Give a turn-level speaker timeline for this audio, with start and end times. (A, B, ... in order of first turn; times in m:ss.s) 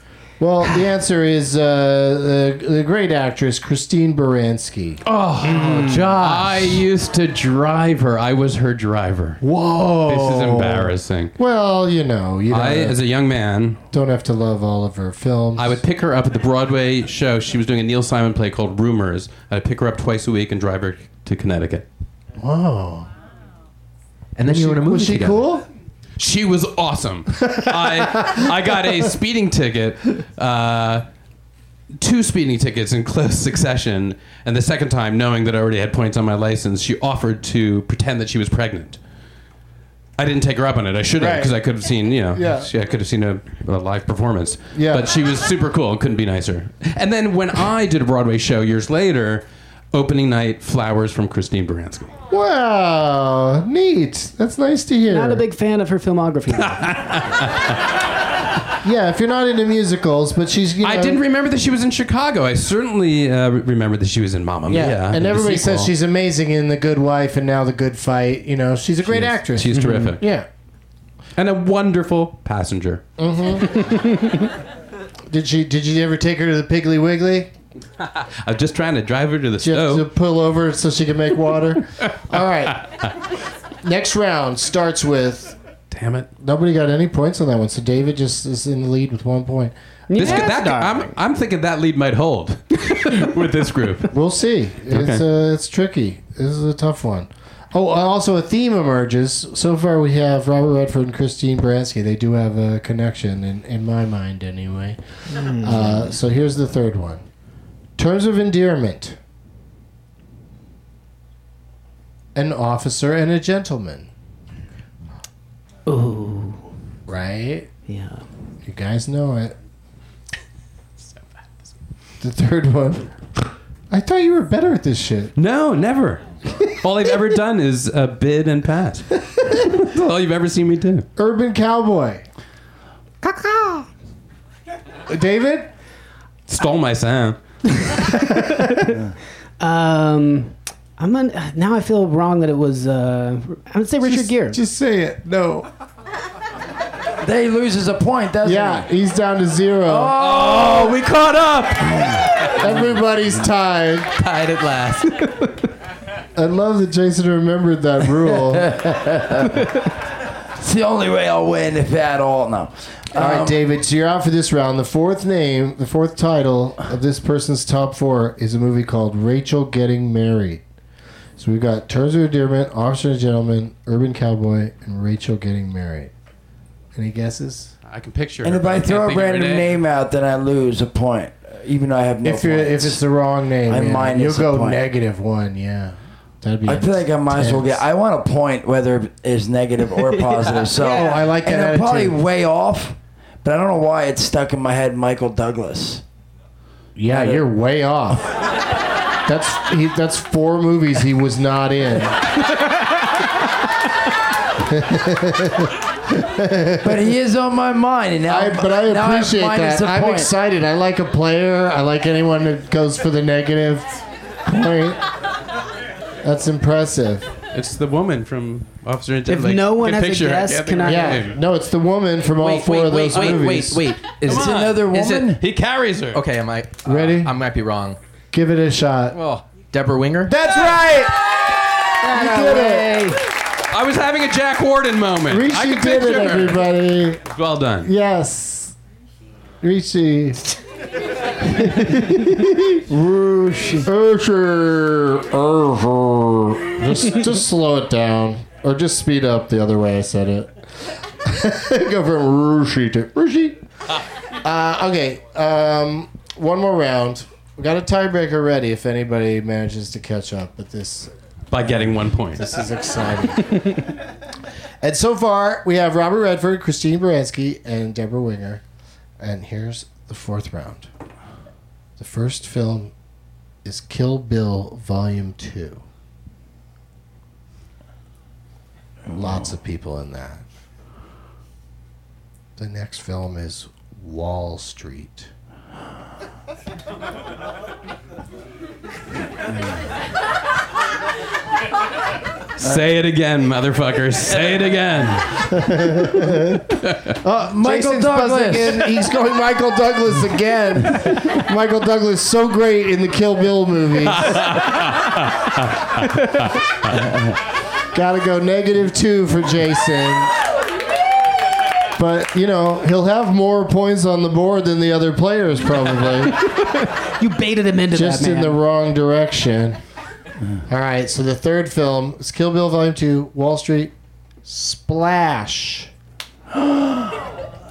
0:00.4-0:05.0 A
0:05.1-0:09.4 B
0:05.5-0:06.7 C
0:09.4-0:13.0 A
0:10.1-0:11.3 B
0:12.5-0:13.8 B
0:13.9-0:15.8 A
0:15.6-0:21.8 B
0:22.4-0:23.1 A
0:24.4-0:25.4 C
0:24.4-0:25.6 A
0:26.2-0:31.0 B
0:32.0-0:39.0 B
0:40.2-0:52.1 B
0:41.2-0:41.5 A
0:42.4-0:42.7 A
0:44.8-0:45.1 A
0:52.3-0:55.4 A
0:55.1-0:57.0 D
0:56.7-0:57.8 B
0:58.8-1:01.2 A
1:00.8-1:05.9 B
1:04.7-1:10.5 A
1:09.1-1:10.2 B
1:09.8-1:10.2 C
1:11.4-1:13.0 B
1:13.2-1:13.9 A
1:15.3-1:17.5 A
1:18.2-1:20.1 B
1:19.6-1:22.9 A
1:23.8-1:25.6 A
1:25.9-1:26.3 B
1:26.4-1:30.4 A
1:30.1-1:31.2 D
1:30.2-1:34.1 B
1:34.1-1:47.2 A
1:34.9-1:35.2 B
1:45.3-1:46.1 D
1:48.0-1:49.2 A
1:52.4-1:54.1 A
1:55.9-1:56.6 D
1:57.1-1:57.7 A
1:57.9-1:58.2 D
1:58.6-1:59.6 A
2:02.2-2:03.2 A
2:03.9-2:05.3 A
2:05.4-2:11.1 B
2:11.2-2:12.2 A
2:13.2-2:13.9 A
2:15.1-2:15.7 A
2:16.5-2:18.0 B
2:18.2-2:18.8 A
2:19.6-2:24.6 D
2:24.0-2:25.7 A
2:27.2-2:28.9 E
2:28.4-2:30.2 A
2:29.9-2:31.0 E
2:30.2-2:32.6 B
2:31.9-2:32.2 E
2:32.5-2:34.1 A
2:34.2-2:34.9 B
2:34.5-2:35.2 C
2:36.4-2:39.0 A
2:38.6-2:39.7 E
2:40.6-2:43.6 E
2:43.1-2:50.6 A
2:51.4-2:56.1 A
2:57.0-2:57.7 A
2:57.9-2:59.8 B
2:58.4-3:03.0 E
3:02.2-3:07.8 A
3:03.7-3:04.8 E
3:06.7-3:16.0 E
3:10.8-3:11.1 D
3:10.8-3:12.2 A
3:17.0-3:18.4 A
3:17.1-3:17.4 E
3:19.2-3:22.3 A
3:24.6-3:27.1 A
3:26.8-3:30.3 E
3:28.3-3:35.0 A
3:36.2-3:37.3 A
3:37.5-3:41.4 B
3:39.3-3:41.2 D
3:40.8-3:43.8 A
3:42.4-3:45.2 C
3:43.1-3:43.5 B
3:44.2-3:46.2 B
3:44.2-3:45.4 E
3:46.1-3:48.0 C
3:46.8-3:47.4 A
3:48.3-3:49.2 A
3:49.1-3:50.4 C
3:50.2-3:51.3 A
3:52.0-3:53.2 A
3:52.0-3:53.2 D
3:53.7-3:56.7 B
3:55.3-3:57.2 A
3:57.3-3:57.9 B
3:57.8-3:58.8 A
3:59.6-4:00.6 A
4:01.4-4:02.8 A
4:02.9-4:03.9 E
4:03.8-4:13.6 A
4:14.4-4:21.1 A
4:21.5-4:22.5 B
4:22.3-4:23.8 A
4:24.8-4:28.6 A
4:29.2-4:30.9 A
4:32.0-4:32.9 A
4:33.6-4:35.8 A
4:39.1-4:39.5 E
4:39.2-4:40.4 A
4:42.6-4:45.3 A
4:52.6-4:55.5 B
4:55.5-5:04.5 A
4:56.8-4:57.2 B
4:57.4-4:58.9 E
5:04.2-5:05.6 B
5:07.9-5:10.3 A
5:12.0-5:16.4 A
5:16.4-5:18.6 D
5:17.9-5:19.8 A
5:20.7-5:23.9 A
5:24.4-5:25.9 A